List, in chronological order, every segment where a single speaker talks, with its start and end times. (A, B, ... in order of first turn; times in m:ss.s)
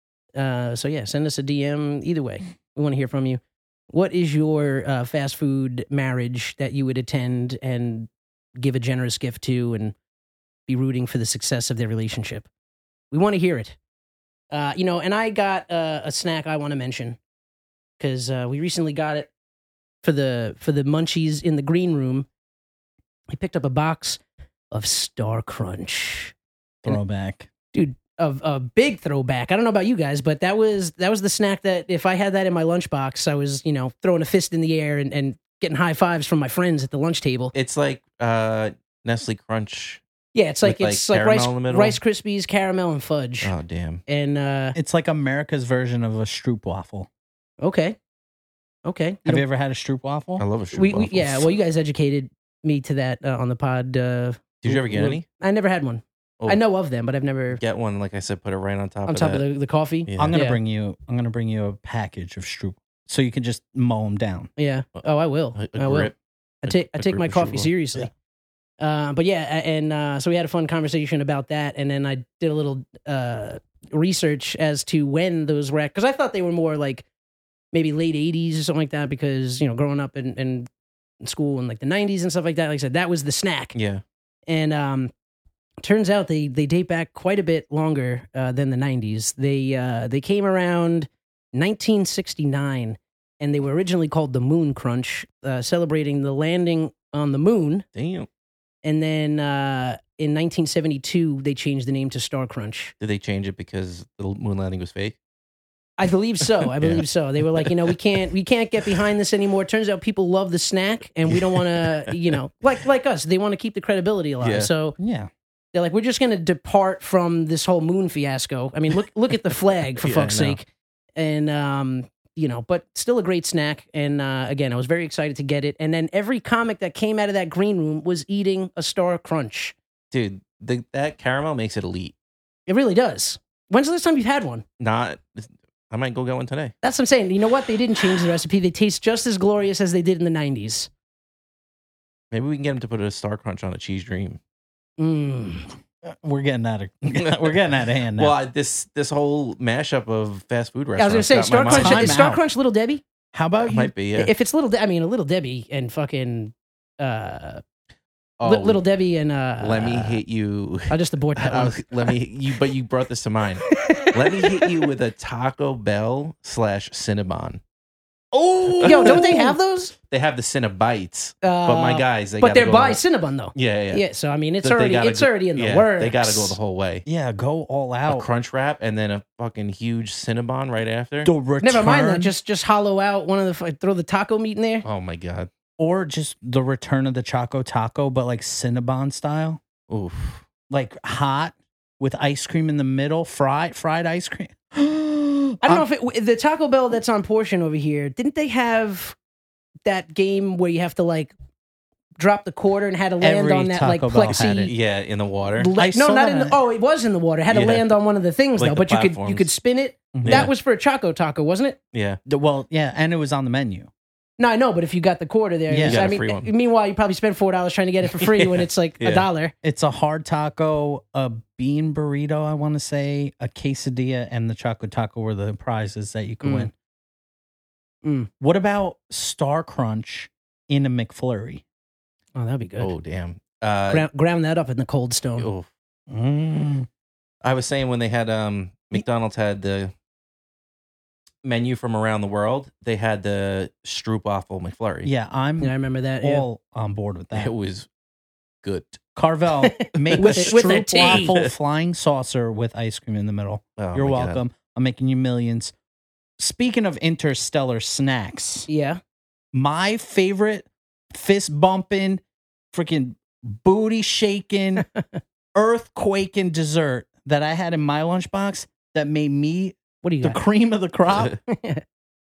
0:00.4-0:10.0 A
0:10.7-0:12.5 A
0:13.1-0:13.8 A
0:14.5-0:17.2 A
0:18.0-0:19.3 A
0:20.0-0:22.3 A
0:23.3-0:24.2 A
0:24.7-0:26.3 A
0:26.8-0:27.5 B
0:27.7-0:37.5 A
0:37.5-0:40.0 C
0:40.3-0:43.5 A
0:40.6-0:42.0 C
0:43.4-0:44.0 C
0:44.1-0:44.8 A
0:44.8-0:47.1 B
0:47.6-0:48.0 A
0:48.8-0:49.4 A
0:49.2-0:50.5 B
0:50.4-0:51.5 C
0:50.7-0:57.6 A
0:54.6-0:55.2 C
0:57.6-0:59.4 C
0:59.1-1:00.6 A
1:00.1-1:00.4 C
1:00.2-1:04.5 B
1:04.6-1:06.1 A
1:05.6-1:07.7 C
1:06.6-1:08.1 A
1:08.8-1:17.1 A
1:17.7-1:20.7 A
1:21.2-1:23.8 A
1:23.8-1:24.0 C
1:24.5-1:25.1 A
1:25.8-1:37.8 A
1:38.0-1:38.3 C
1:38.8-1:42.9 A
1:43.0-1:45.2 C
1:46.0-1:55.0 A
1:46.8-1:47.0 C
1:51.3-1:52.2 C
1:54.4-1:54.7 C
1:55.0-1:55.3 B
1:55.7-2:09.8 A
2:00.0-2:00.6 C
2:10.1-2:12.1 C
2:12.7-2:14.6 A
2:14.8-2:16.7 C
2:16.8-2:20.9 A
2:22.3-2:24.4 C
2:25.0-2:25.7 A
2:26.0-2:28.4 B
2:27.2-2:27.5 C
2:28.2-2:32.2 C
2:31.0-2:33.0 A
2:31.7-2:32.4 B
2:33.3-2:33.9 B
2:33.7-2:34.3 C
2:34.2-2:37.6 A
2:38.4-2:38.8 C
2:38.4-2:40.2 A
2:39.6-2:47.6 C
2:40.9-2:42.1 A
2:43.7-2:44.7 A
2:48.4-2:49.5 B
2:48.7-2:49.5 C
2:48.8-2:49.9 A
2:50.1-2:53.0 C
2:51.4-2:56.6 A
2:53.5-2:54.0 C
2:54.6-2:57.0 C
2:57.0-2:58.3 B
2:58.1-3:01.3 C
3:01.2-3:02.3 B
3:01.6-3:04.8 A
3:04.8-3:05.5 C
3:05.8-3:09.6 B
3:09.9-3:10.4 C
3:10.7-3:15.8 B
3:15.6-3:19.2 A
3:19.9-3:21.3 A
3:22.2-3:24.7 A
3:23.2-3:24.7 B
3:24.7-3:25.7 C
3:25.6-3:31.8 A
3:25.8-3:26.6 B
3:27.5-3:27.9 C
3:28.6-3:29.5 C
3:30.1-3:30.5 B
3:30.2-3:30.5 C
3:31.9-3:32.2 C
3:32.3-3:33.9 B
3:34.4-3:39.5 A
3:35.7-3:36.1 B
3:35.9-3:36.5 C
3:38.2-3:39.3 C
3:39.6-3:46.7 B
3:46.4-3:46.7 A
3:48.0-3:48.3 A
3:48.4-3:51.6 B
3:52.4-3:52.9 A
3:52.8-3:54.1 C
3:53.9-3:55.5 A
3:55.4-3:55.7 C
3:56.1-3:56.9 B
3:57.4-3:59.9 C
4:01.4-4:05.1 C
4:05.0-4:07.5 B
4:05.6-4:06.5 A
4:07.4-4:07.9 C
4:08.6-4:09.0 C
4:09.2-4:15.7 B
4:09.7-4:11.4 A
4:10.1-4:11.5 C
4:13.8-4:14.4 C
4:16.4-4:18.7 B
4:18.7-4:19.0 A
4:19.5-4:24.9 B
4:25.6-4:31.4 B
4:30.0-4:30.4 A
4:31.5-4:31.8 A